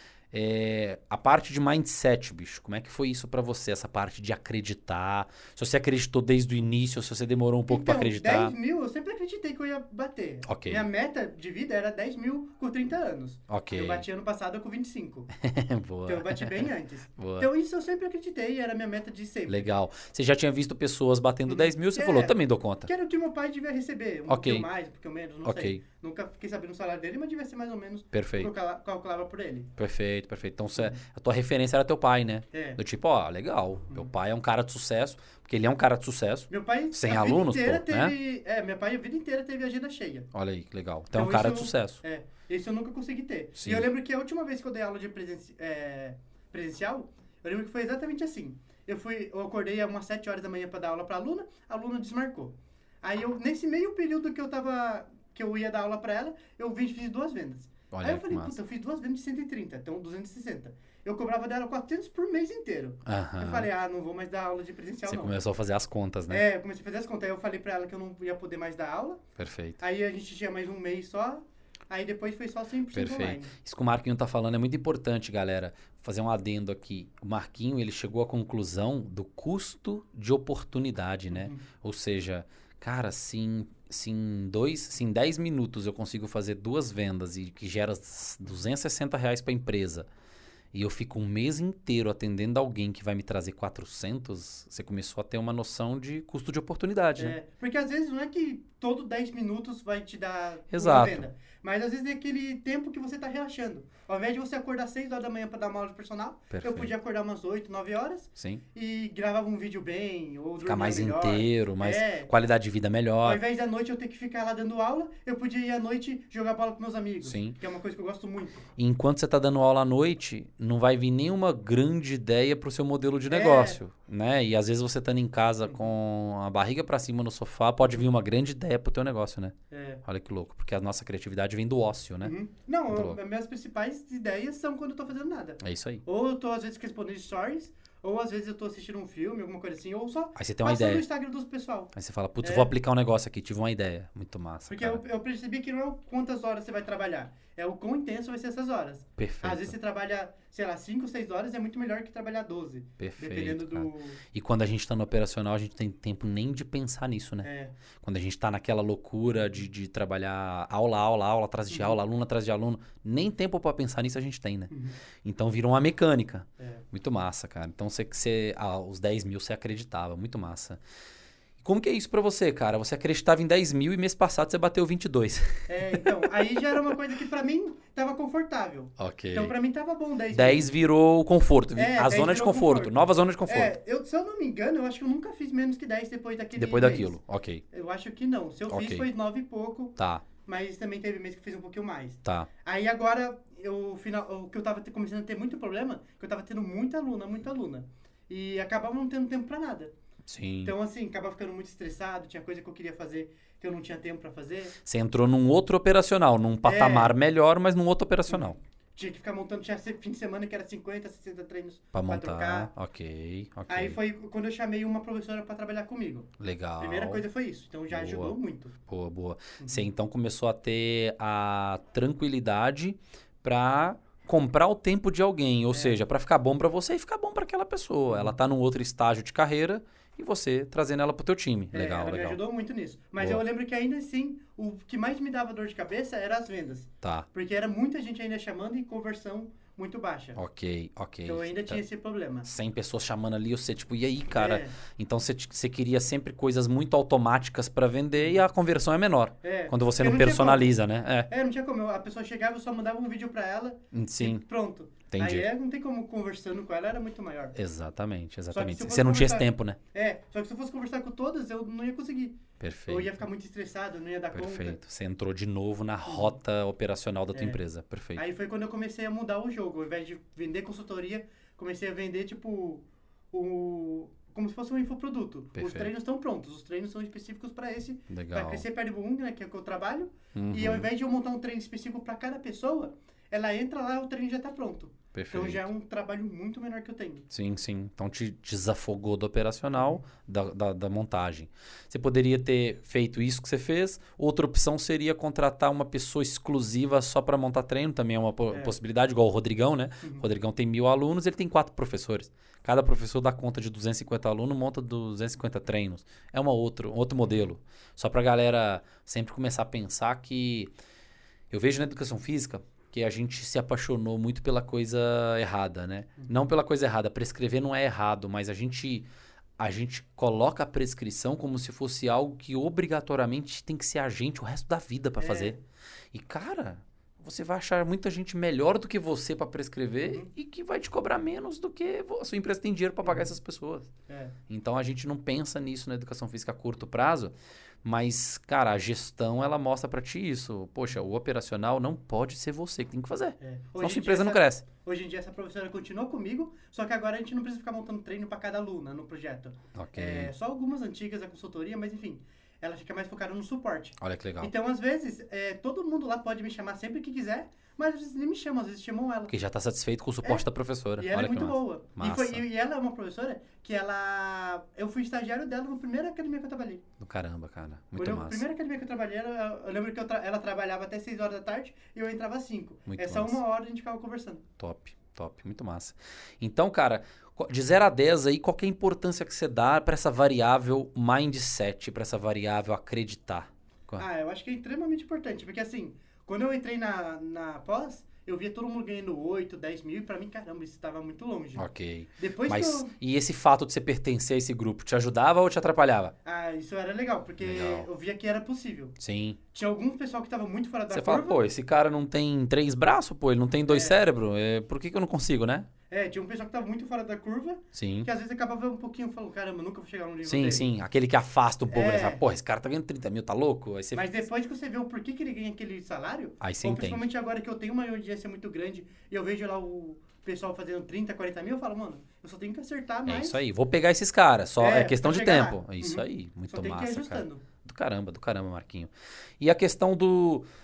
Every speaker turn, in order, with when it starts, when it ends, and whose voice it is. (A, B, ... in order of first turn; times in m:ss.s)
0:00.3-0:08.6 A
0:07.7-0:15.3 B
0:10.4-0:10.9 A
0:13.5-0:14.0 A
0:15.4-0:17.5 A
0:16.1-0:19.7 B
0:19.5-0:22.9 A
0:21.5-0:29.7 B
0:24.3-0:24.7 A
0:25.4-0:25.8 A
0:28.1-0:28.5 A
0:29.8-0:38.1 A
0:32.5-0:32.8 B
0:36.5-0:40.3 B
0:40.3-0:42.0 A
0:41.1-1:05.4 B
0:43.6-0:43.9 A
0:57.9-0:58.6 A
1:03.1-1:03.7 A
1:05.1-1:06.4 A
1:06.3-1:09.2 B
1:09.4-1:09.8 A
1:09.8-1:13.5 B
1:12.9-1:30.1 A
1:21.3-1:21.6 B
1:30.7-1:37.4 A
1:37.2-1:52.3 B
1:40.7-1:41.2 A
1:46.5-1:46.9 A
1:48.4-1:48.6 A
1:50.6-1:53.4 A
1:53.2-1:58.7 B
1:57.2-1:57.6 A
1:58.8-2:12.4 A
2:03.3-2:03.8 B
2:09.7-2:10.0 B
2:12.2-2:22.7 B
2:12.9-2:13.2 A
2:15.6-2:16.0 A
2:20.4-2:21.0 A
2:21.9-2:25.0 A
2:24.7-2:34.2 B
2:29.2-2:29.7 A
2:33.0-2:37.5 A
2:37.4-2:37.7 B
2:38.0-2:44.7 A
2:41.7-2:42.0 B
2:44.7-2:45.0 B
2:45.2-2:50.8 A
2:46.6-2:46.8 B
2:51.6-2:56.1 A
2:55.7-3:00.7 B
2:59.0-2:59.6 A
3:00.3-3:03.7 A
3:01.8-3:07.2 B
3:06.6-3:07.6 A
3:07.7-3:19.9 B
3:08.7-3:09.1 A
3:10.0-3:10.2 A
3:12.2-3:12.5 A
3:20.3-3:20.7 A
3:20.6-3:24.8 B
3:24.8-3:28.6 A
3:26.6-3:27.2 B
3:28.3-3:32.7 B
3:31.9-3:34.0 A
3:33.7-3:38.7 B
3:36.4-3:37.2 A
3:37.9-3:52.4 A
3:39.6-3:39.9 B
3:48.1-3:48.4 B
3:51.7-4:00.4 B
3:53.2-3:53.4 A
3:57.0-3:57.3 A
4:00.4-4:01.8 A
4:01.3-4:02.5 B
4:02.4-4:11.3 A
4:04.3-4:04.8 B
4:08.2-4:08.4 B
4:09.4-4:10.7 B
4:11.3-4:17.6 B
4:13.9-4:14.4 A
4:15.1-4:15.5 A
4:17.6-4:19.8 A
4:18.5-4:24.8 B
4:22.6-4:23.1 A
4:24.3-4:28.2 A
4:26.1-4:26.4 B
4:27.3-4:27.6 B
4:28.2-4:47.3 B
4:35.6-4:35.9 A
4:38.1-4:38.6 A
4:40.3-4:40.9 A
4:45.1-4:45.7 A
4:47.3-5:10.7 A
4:49.7-4:50.0 B
5:07.2-5:07.5 B
5:11.5-5:19.1 A
5:19.6-5:25.6 A
5:25.2-5:25.6 B
5:26.1-5:33.9 A
5:30.0-5:30.3 B
5:33.0-5:33.3 B
5:34.1-5:34.4 B
5:34.5-5:37.3 A
5:37.8-5:44.6 A
5:43.4-5:59.3 B
5:49.7-5:50.3 A
5:54.0-5:54.5 A
5:59.3-6:02.4 A
6:01.0-6:06.8 B
6:07.0-6:08.4 A
6:08.0-6:14.4 B
6:12.9-6:13.4 A
6:14.6-6:24.0 A
6:24.0-6:31.7 B
6:31.6-6:36.1 A
6:32.2-6:32.9 B
6:36.2-6:39.0 B
6:37.4-6:37.9 A
6:39.0-6:39.4 A
6:39.5-6:41.4 B
6:40.9-6:45.7 A
6:43.7-6:44.0 B
6:45.9-6:50.7 B
6:47.7-6:48.1 A
6:50.2-6:54.2 A
6:51.7-6:52.2 B
6:53.9-7:03.4 B
6:56.4-6:57.1 A
7:03.1-7:10.4 A
7:04.6-7:07.4 B